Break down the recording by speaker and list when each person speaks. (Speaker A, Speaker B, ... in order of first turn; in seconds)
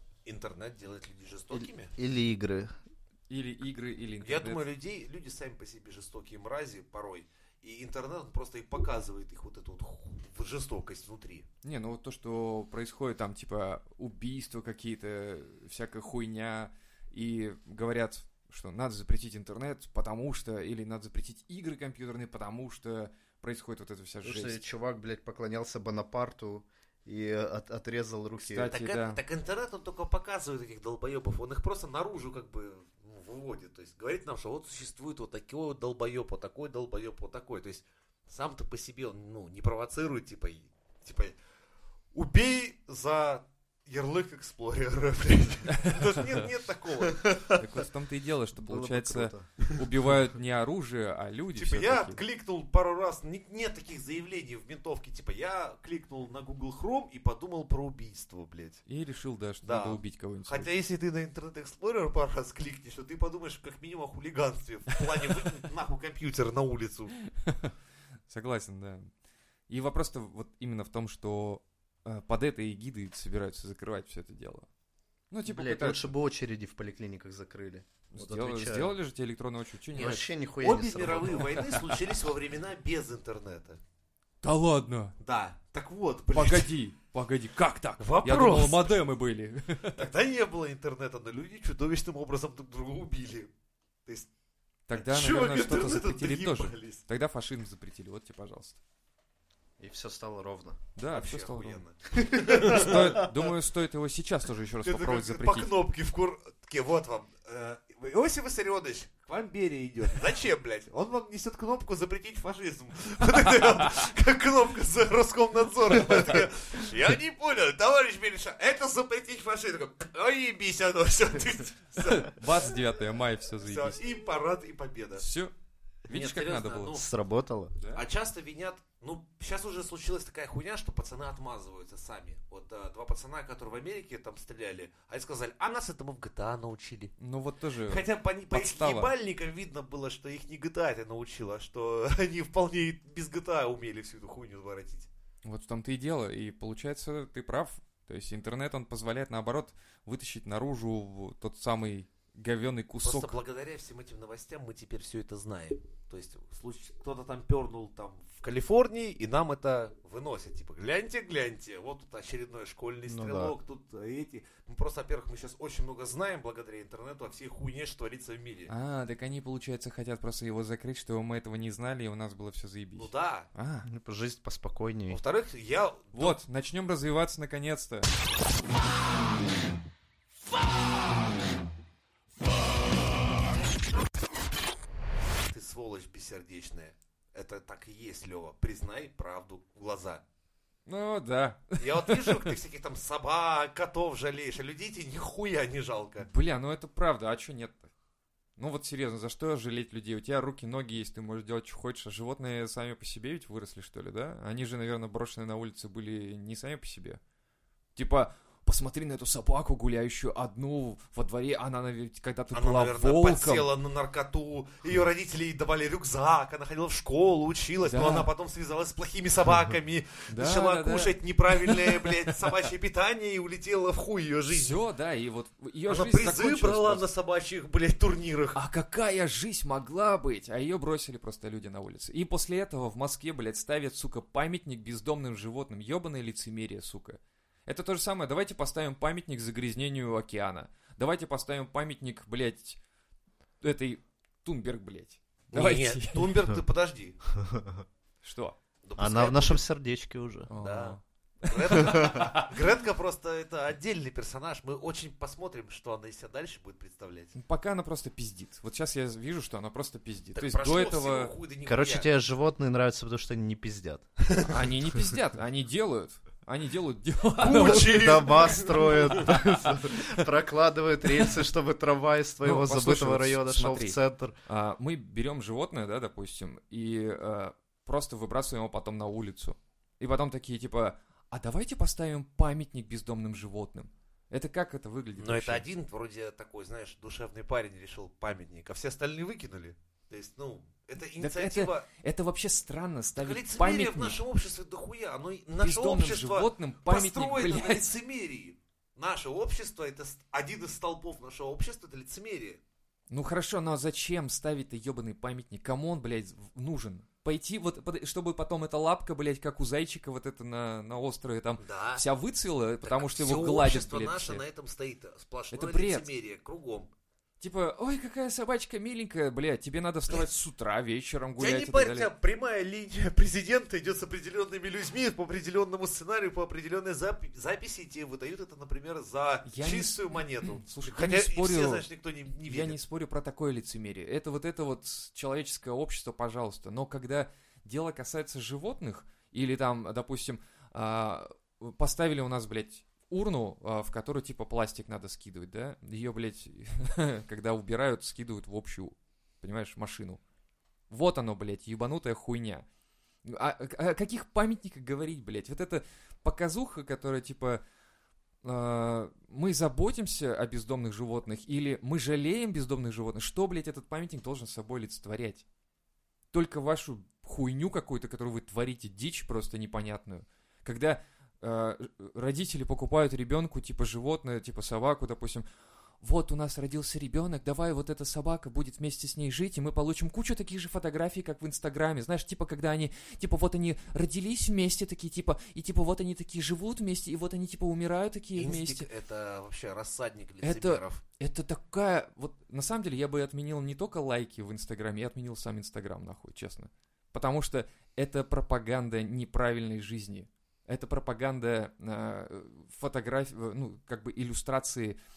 Speaker A: 0.3-1.9, 4.2-11.4, 28.4-41.4, 42.1-47.7, 51.5-58.8, 59.6-67.2, 79.9-83.8, 85.2-86.8, 88.0-89.0, 90.0-93.5, 94.9-97.0, 101.1-103.3, 104.8-122.5, 123.6-125.2, 126.1-127.1, 127.9-137.2, 137.8-145.1, 153.0-168.7, 173.0-173.5, 175.1-176.4, 185.5-190.2, 191.8-196.3, 212.5-224.8, 225.9-228.6, 245.5-247.2, 248.8-249.6, 250.6-257.3, 260.4-262.1, 264.3-264.7, 267.4-269.4, 285.2-291.9, 293.2-302.6, 311.6-312.1, 312.8-316.9, 321.4-332.8, 388.4-391.0
Speaker B: 2.0-2.8, 24.2-28.7, 47.3-47.5, 48.6-49.5, 75.5-79.0, 79.9-81.6, 99.8-100.8, 126.9-127.8, 163.1-163.6, 173.8-175.2, 247.4-247.8, 249.0-250.5, 251.9-252.2, 261.6-264.0, 267.5-274.4
Speaker C: 3.3-4.7, 11.6-24.6, 28.5-29.2, 47.5-52.2, 58.9-60.7, 67.2-67.7, 68.3-69.1, 69.7-74.7, 75.3-76.1, 78.1-80.2, 81.3-82.0, 84.4-85.1, 86.3-90.1, 94.9-98.8, 101.0-101.8, 102.5-105.7, 122.0-124.0, 125.2-125.5, 126.1-127.0, 137.2-139.1, 145.4-153.4, 168.7-173.9, 176.1-178.1, 190.9-192.5, 196.2-197.9, 198.6-207.2, 208.0-213.7, 217.8-218.3, 220.3-222.5, 224.5-227.1, 228.6-242.8, 243.6-246.4, 248.2-248.6, 250.5-252.5, 257.4-261.4, 264.5-270.1, 271.1-271.4, 272.4-285.7, 291.2-294.2, 295.6-297.9, 303.1-314.4, 315.5-316.1, 317.4-322.1, 329.4-331.9, 332.5-350.2, 350.9-352.6, 353.2-357.6, 358.4-365.4, 366.3-375.4, 376.0-388.9, 390.4-405.0